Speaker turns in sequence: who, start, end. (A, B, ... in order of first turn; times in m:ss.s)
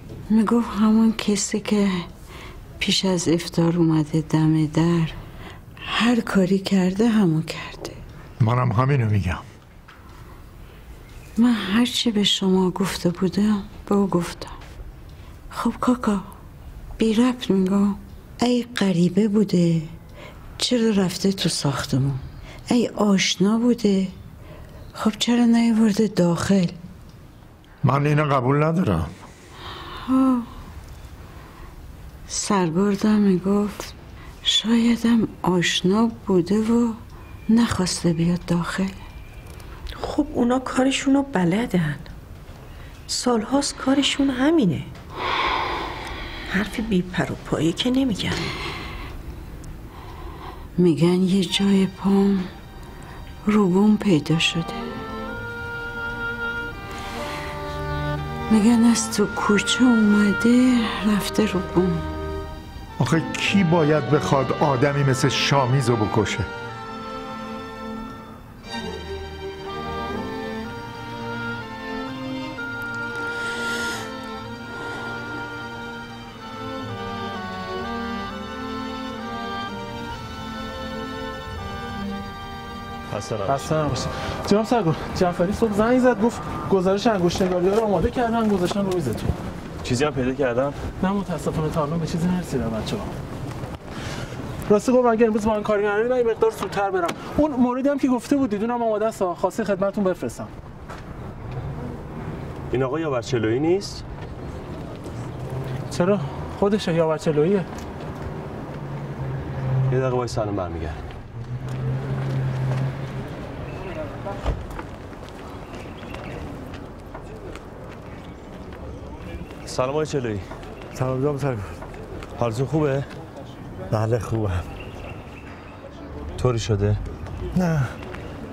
0:00.3-0:02.0 A
0:02.8-0:05.2 A
0:05.8-0:08.0 A
0:08.4-0:09.4 B
0:11.4-0:14.5 A
0:15.5-0:16.2 A
0:17.0-0:19.9 A
0:20.6-0:24.1 A
0:24.9-0:26.8 A
0:27.8-0:29.1 B
0:30.0-0:30.5 A
0:32.3-0:33.9 A
0:34.4-0:37.0 A
0:37.5-0:38.9 A
0:40.0-0:42.1 C
0:43.1-0:44.9 C
0:46.5-0:48.5 C
0:50.8-0:52.5 A
0:53.5-0:54.8 A
0:58.5-1:02.0 A
1:03.0-1:06.5 B
1:23.1-1:23.8 D
1:23.5-1:29.3 E
1:29.8-1:30.8 D
1:31.0-1:33.2 E
1:34.7-1:40.5 E
1:42.7-1:44.0 D
1:45.9-1:47.7 E
1:49.9-1:51.1 D
1:59.6-2:00.4 D
2:00.9-2:01.8 B
2:02.4-2:03.1 D
2:03.9-2:04.7 B
2:06.4-2:07.0 D
2:07.5-2:07.9 B